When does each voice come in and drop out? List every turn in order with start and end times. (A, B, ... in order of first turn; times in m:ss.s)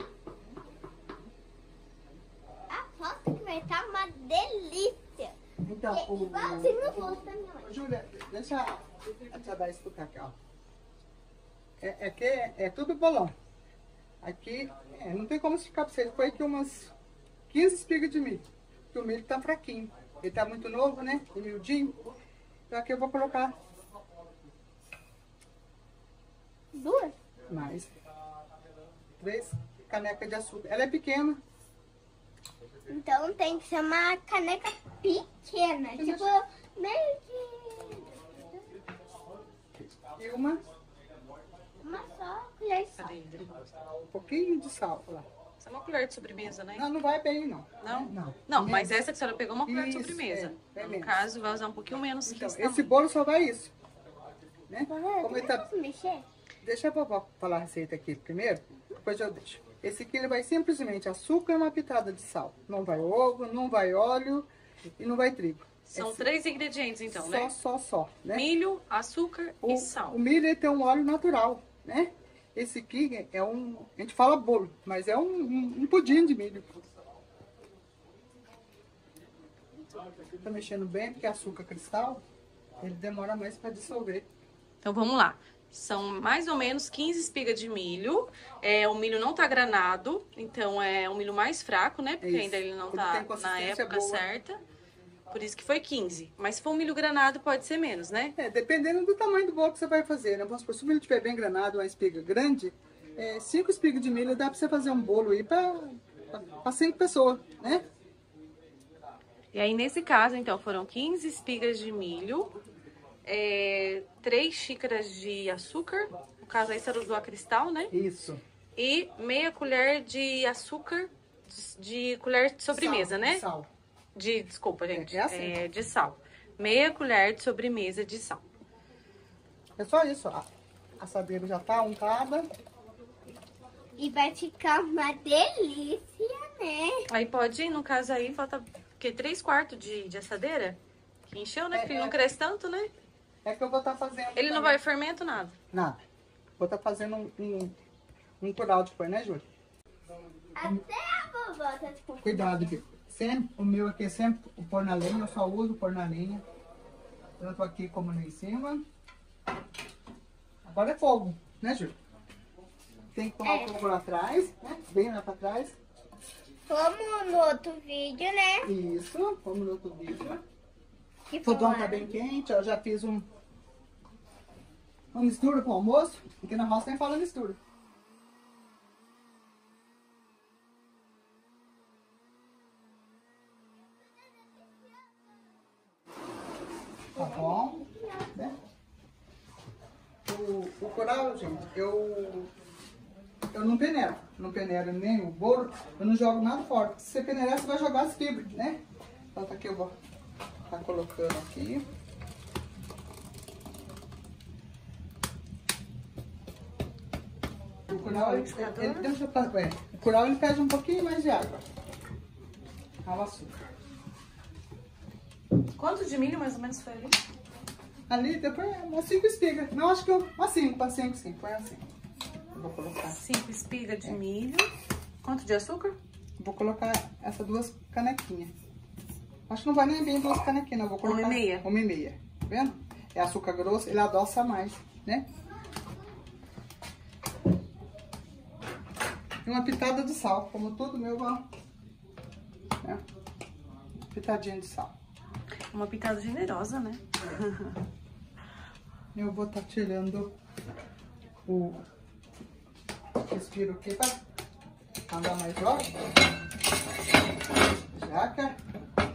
0:02.7-0:05.4 A
0:05.6-0:10.4 B
0:05.9-0:07.7 A
0:11.8-0:13.3 B
0:14.2-0:16.9 B
0:17.5-0:21.9 B
0:22.7-0:23.6 B
0:26.7-0:27.1 A
0:27.5-0:27.9 B
0:29.2-0:31.4 B
0:32.9-0:38.4 A
0:36.0-0:36.3 B
0:39.9-0:40.6 B
0:41.8-0:43.2 A
0:43.0-0:43.6 C
0:44.1-0:45.3 B
0:45.6-0:46.8 C
0:46.7-0:49.0 B
0:47.8-0:52.9 C
0:49.6-0:51.2 B
0:52.2-0:53.7 B
0:54.7-0:55.7 B
0:54.9-0:56.2 A
0:56.6-1:06.2 B
1:05.9-1:07.5 C
1:07.1-1:08.5 B
1:08.3-1:10.2 C
1:09.6-1:16.7 B
1:20.4-1:22.2 B
1:22.8-1:24.3 B
1:24.8-1:34.6 C
1:32.2-1:34.3 B
1:35.3-1:38.3 C
1:38.4-1:47.8 B
1:49.5-1:52.6 C
1:53.2-1:57.9 C
1:57.9-1:58.4 B
1:58.8-2:03.4 C
2:02.7-2:03.7 B
2:04.1-2:08.4 C
2:04.9-2:05.6 B
2:09.8-2:10.4 B
2:11.0-2:12.5 B
2:14.0-2:17.1 A
2:17.1-2:22.9 C
2:21.7-2:22.2 B
2:23.4-2:24.8 B
2:24.4-2:25.5 C
2:25.7-2:26.0 B
2:26.6-2:27.7 B
2:28.4-2:29.4 B
2:30.5-2:32.8 A
2:32.2-2:36.4 B
2:37.4-2:38.8 B
2:40.6-2:41.9 B
2:43.1-2:45.8 B
2:43.4-2:43.8 A
2:46.7-2:48.7 A
2:48.6-2:50.4 B
2:51.3-2:52.1 A
2:51.4-2:53.3 B
2:55.1-2:57.6 B
3:07.1-3:08.3 A
3:07.1-3:08.6 B
3:10.2-3:12.5 B
3:13.5-3:18.8 B
3:19.3-3:20.0 B
3:20.7-3:21.8 B
3:27.9-3:29.1 C
3:27.9-3:31.6 B
3:33.0-3:33.6 B
3:35.8-3:37.2 C
3:38.1-3:41.8 B
3:42.5-3:43.2 B
3:43.1-3:44.7 C
3:45.2-3:46.0 C
3:46.4-3:48.5 B
3:49.5-3:55.2 B
3:51.0-3:51.6 C
3:59.4-4:01.4 B
4:04.1-4:04.9 B
4:05.7-4:07.7 C
4:09.1-4:10.3 B
4:11.5-4:11.8 B
4:13.3-4:14.2 B
4:15.1-4:15.9 B
4:17.9-4:18.6 B